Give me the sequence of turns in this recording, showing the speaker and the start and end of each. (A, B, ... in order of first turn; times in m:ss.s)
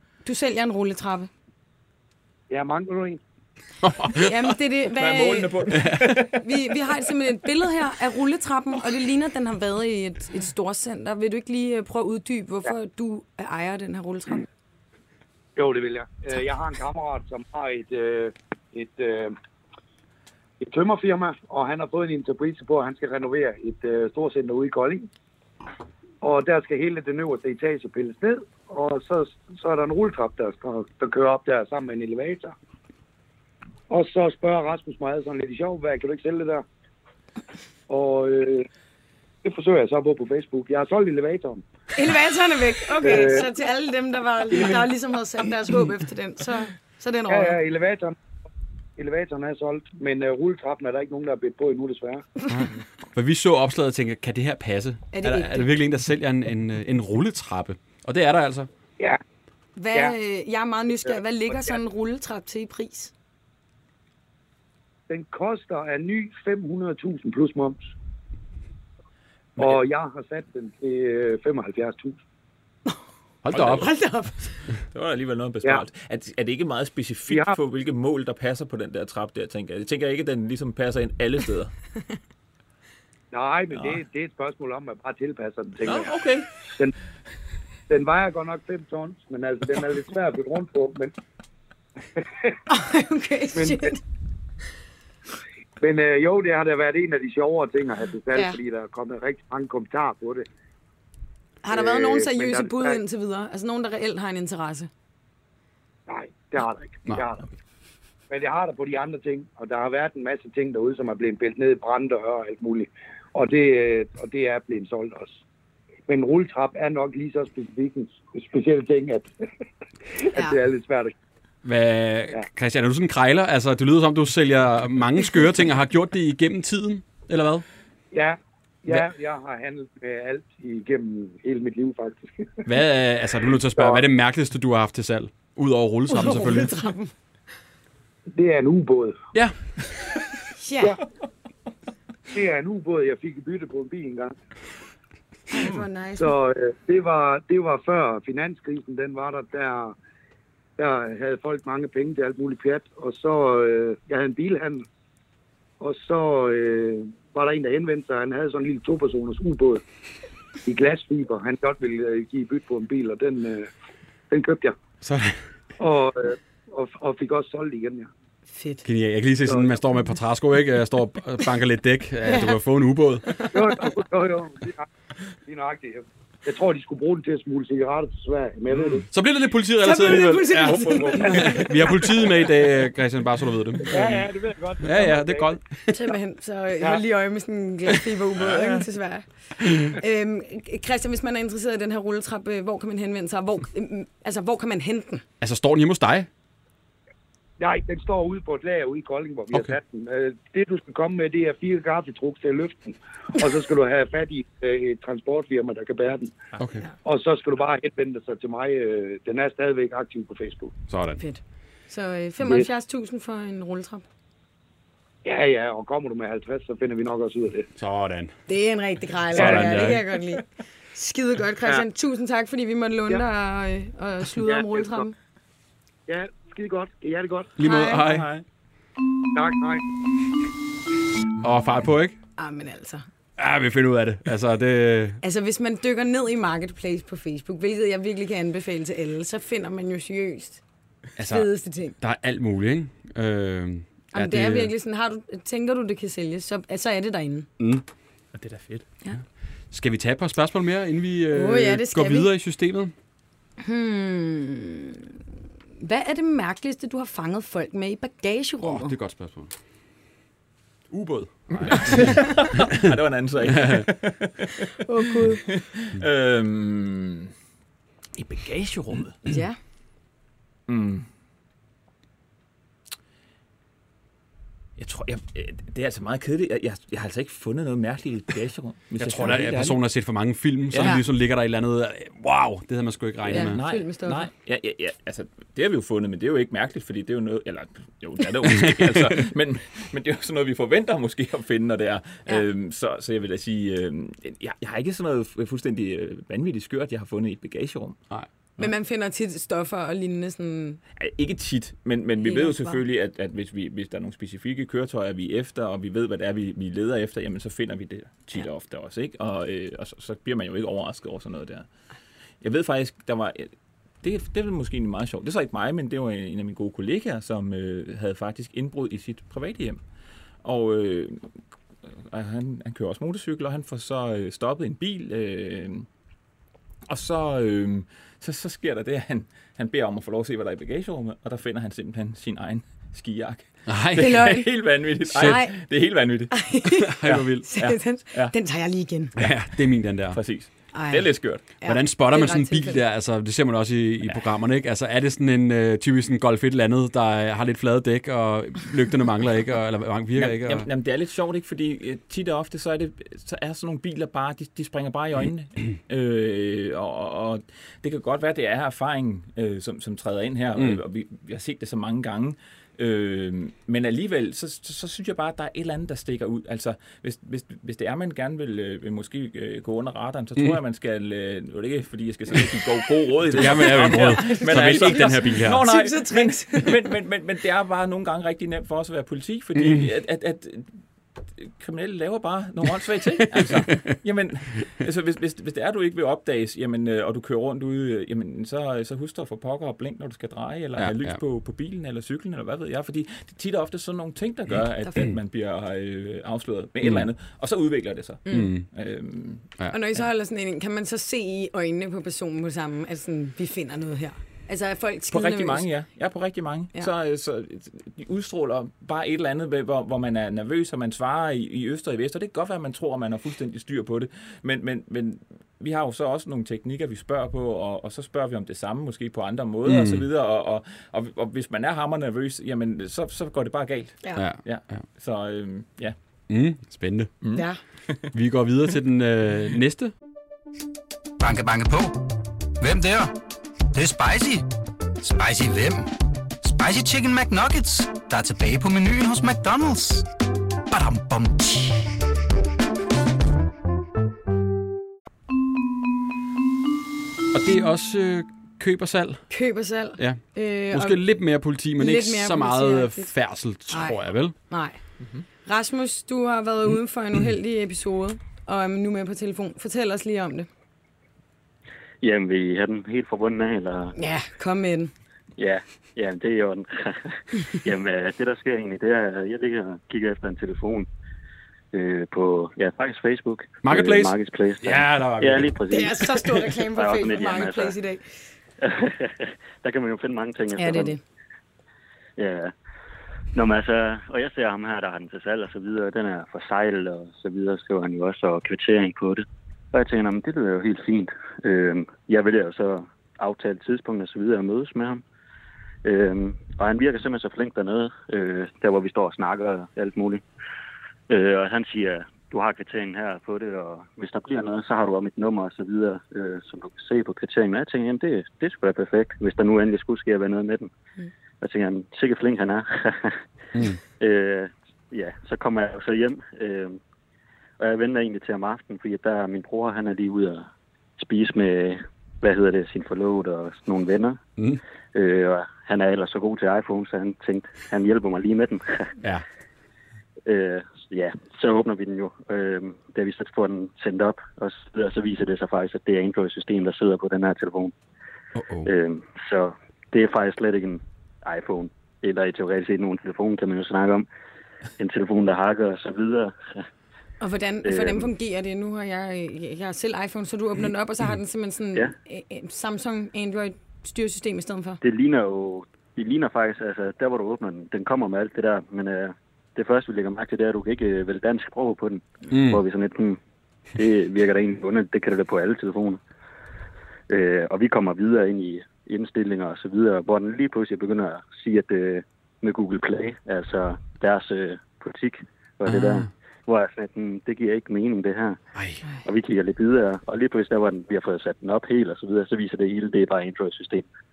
0:00.2-0:01.3 A
0:02.5-0:03.2 B
0:03.8-0:04.4 C
0:04.1-0:14.4 A
0:04.9-0:06.4 D
0:05.8-0:06.2 C
0:15.6-0:19.4 B
0:20.6-0:25.1 B
0:26.2-0:32.5 B
0:33.9-0:36.6 B
0:37.9-0:38.7 B
0:39.4-0:41.6 B
0:42.0-0:47.6 A
0:43.0-0:43.5 B
0:47.3-0:48.2 B
0:49.0-0:52.2 B
0:52.5-0:58.7 C
0:55.1-0:55.7 A
0:59.8-1:03.1 A
1:05.1-1:07.9 B
1:09.6-1:12.2 B
1:13.4-1:13.9 C
1:13.5-1:13.9 D
1:13.6-1:14.6 A
1:14.9-1:21.7 D
1:17.3-1:17.6 B
1:23.3-1:26.1 B
1:23.7-1:24.0 D
1:25.8-1:26.5 D
1:27.9-1:31.1 B
1:32.2-1:32.5 B
1:32.7-1:34.0 A
1:33.5-1:33.9 B
1:35.8-1:40.5 B
1:41.6-1:44.9 A
1:41.7-1:43.0 B
1:46.1-1:47.4 B
1:48.3-1:55.4 B
1:56.1-1:59.3 B
2:00.2-2:01.1 B
2:01.6-2:07.6 C
2:08.1-2:12.7 B
2:12.6-2:16.8 C
2:13.8-2:14.0 B
2:16.1-2:17.1 A
2:18.3-2:19.2 B
2:20.6-2:21.0 A
2:22.3-2:24.4 B
2:25.5-2:26.4 A
2:26.2-2:30.0 B
2:30.8-2:34.9 B
2:35.8-2:39.8 B
2:40.6-2:43.7 B
2:44.3-2:44.8 B
2:45.0-2:45.4 C
2:45.8-2:48.1 B
2:48.5-2:48.8 A
2:48.8-2:53.5 C
2:49.5-2:49.8 B
2:53.5-2:54.9 B
2:55.5-2:59.1 B
2:58.7-2:59.0 D
2:59.1-3:04.2 C
2:59.8-3:01.7 A
3:00.6-3:01.8 D
3:03.8-3:05.6 B
3:04.8-3:05.9 C
3:05.9-3:09.2 A
3:08.4-3:08.8 D
3:09.8-3:15.2 A
3:15.4-3:16.3 C
3:17.6-3:26.3 B
3:26.6-3:26.8 C
3:27.0-3:30.7 B
3:30.9-3:31.2 C
3:31.2-3:34.0 A
3:35.2-3:37.7 B
3:37.8-3:38.3 C
3:38.5-3:45.1 A
3:39.3-3:40.0 C
3:39.4-3:39.8 B
3:44.4-3:45.1 B
3:46.1-3:47.6 B
3:47.6-3:48.4 C
3:47.6-3:48.1 A
3:49.3-3:49.8 B
3:51.4-3:52.2 C
3:52.4-3:53.0 A
3:53.4-3:55.2 C
3:55.2-4:00.6 A
4:01.2-4:04.7 C
4:01.2-4:02.0 A
4:04.1-4:07.5 A
4:08.3-4:08.8 D
4:09.7-4:12.9 C
4:11.3-4:12.3 A
4:13.6-4:15.1 A
4:15.8-4:19.0 A
4:18.6-4:19.5 C
4:20.9-4:22.3 C
4:21.5-4:24.6 D
4:23.5-4:23.8 C
4:24.8-4:25.4 A
4:25.4-4:27.3 D
4:28.2-4:29.2 D
4:29.2-4:29.6 A
4:30.7-4:31.0 D
4:34.8-4:39.8 D
4:39.0-4:43.6 C
4:40.7-4:41.0 D
4:43.2-4:44.3 A
4:43.3-4:58.0 D
4:48.6-4:49.1 C
4:58.6-5:00.8 A
5:01.0-5:11.7 D
5:02.2-5:02.8 A
5:12.4-5:19.8 D
5:20.4-5:21.3 D
5:22.1-5:25.9 D
5:26.9-5:36.5 D
5:33.7-5:34.2 C
5:34.0-5:35.6 A
5:36.3-5:39.1 A
5:36.8-5:37.5 C
5:37.0-5:38.3 D
5:39.2-5:40.2 C
5:40.1-5:41.4 D
5:40.7-5:42.8 A
5:41.6-5:50.7 C
5:50.2-6:20.7 D
6:13.3-6:15.7 C
6:13.7-6:16.9 A
6:19.6-6:19.8 C
6:21.4-6:39.5 D
6:23.2-6:24.0 C
6:30.8-6:31.2 C
6:38.2-6:38.6 A
6:38.3-6:38.7 C
6:39.7-6:45.7 A
6:45.1-7:06.0 D
6:59.6-7:00.0 C
7:04.2-7:04.8 C
7:06.3-7:07.1 C
7:07.2-7:08.1 D
7:07.3-7:07.6 A
7:08.1-7:09.9 C
7:11.2-7:12.0 E
7:12.6-7:13.1 E
7:13.7-7:14.5 E
7:15.0-7:20.0 E
7:20.7-7:21.9 E
7:27.3-7:29.3 C
7:29.3-7:31.0 A
7:30.0-7:34.3 C
7:31.8-7:33.1 A
7:33.7-7:34.8 A
7:35.0-7:35.2 D
7:35.4-7:40.5 A
7:42.0-7:44.0 F
7:44.0-7:44.9 A
7:45.4-7:50.9 F
7:51.7-7:57.8 F
7:53.6-7:55.6 C
7:55.7-7:58.2 A
7:58.6-8:01.0 F
8:00.5-8:01.0 A
8:02.2-8:02.5 F
8:03.3-8:15.0 F
8:15.8-8:20.2 F
8:21.1-8:30.7 F
8:31.4-8:33.2 F
8:34.0-8:36.8 F
8:37.6-8:44.2 F
8:44.9-8:48.9 F
8:50.2-8:57.7 F
8:58.3-8:58.7 C
8:58.6-9:04.1 F
9:04.8-9:06.6 F
9:07.2-9:14.8 A
9:07.6-9:08.1 F
9:14.8-9:23.2 F
9:22.3-9:22.6 C
9:23.8-9:26.0 F
9:27.1-9:38.4 F
9:35.7-9:36.1 C
9:38.5-9:38.8 C
9:39.0-9:43.8 F